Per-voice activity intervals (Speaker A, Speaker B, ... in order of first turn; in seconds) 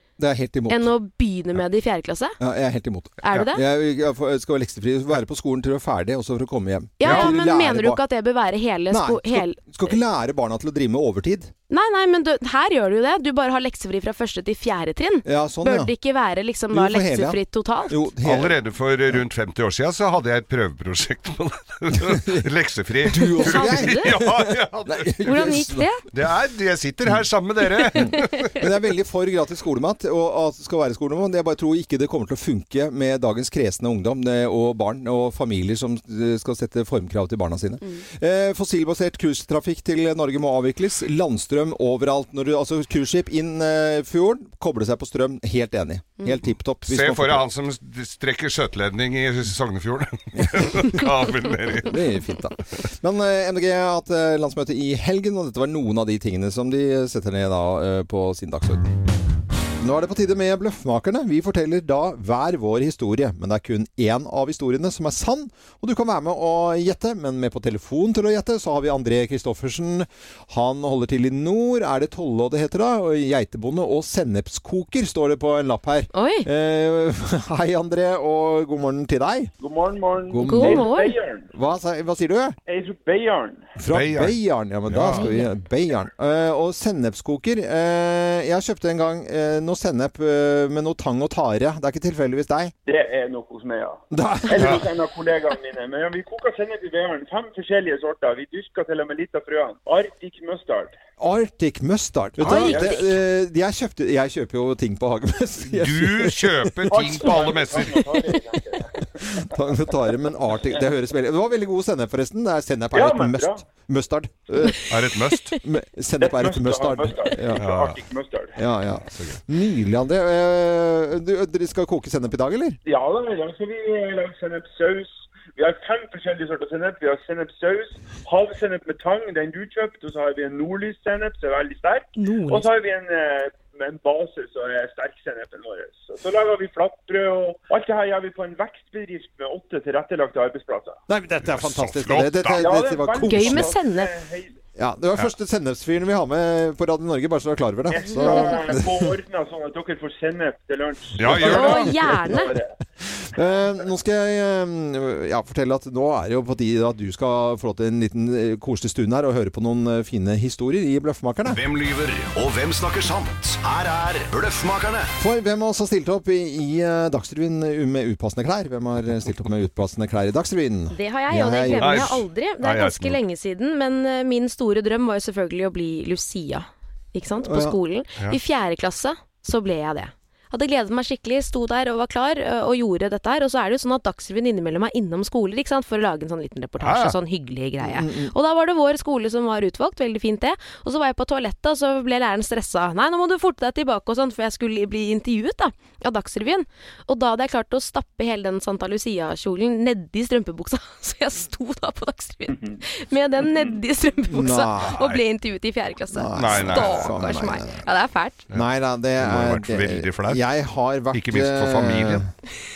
Speaker A: 0.2-0.9, 2.4-8.0, 8.9-11.5, 15.2-15.9, 16.7-18.6, 22.1-22.4, 23.1-25.9, 27.9-47.5, 50.4-50.7, 51.8-58.9, 59.8-79.5, 80.3-80.9, 81.5-82.5, 83.8-92.7, 94.1-94.8, 101.2-106.9, 109.2-114.9, 115.5-117.6, 118.5-122.8, 141.1-143.7, 144.8-149.1, 151.3-151.8, 153.2-161.6, 165.2-172.2, 177.4-177.8, 187.8-188.3, 204.3-205.0, 206.1-207.8, 208.5-212.2
Speaker B: 0.7-2.4, 3.2-3.6, 7.0-9.6, 11.7-18.0, 23.4-24.1, 25.2-26.0, 76.1-76.5, 80.4-81.1, 85.1-85.5, 102.4-103.2, 143.2-144.1, 148.0-148.6, 151.4-152.5, 170.9-208.4
Speaker C: 7.0-7.3, 18.2-25.6, 26.1-28.5, 46.9-52.0, 83.9-85.3, 94.6-94.8, 102.4-102.7, 105.6-108.0, 114.9-115.6, 117.6-118.0, 141.4-142.7, 151.2-151.8, 171.7-173.2, 186.8-187.2, 204.9-205.2, 206.3-207.1, 209.2-210.4, 211.1-212.2
Speaker D: 79.6-81.5, 82.7-83.6, 92.8-101.0, 106.9-109.0, 112.9-113.6, 116.2-118.5, 122.8-141.0, 142.5-144.6, 147.9-152.7
Speaker E: 161.5-165.1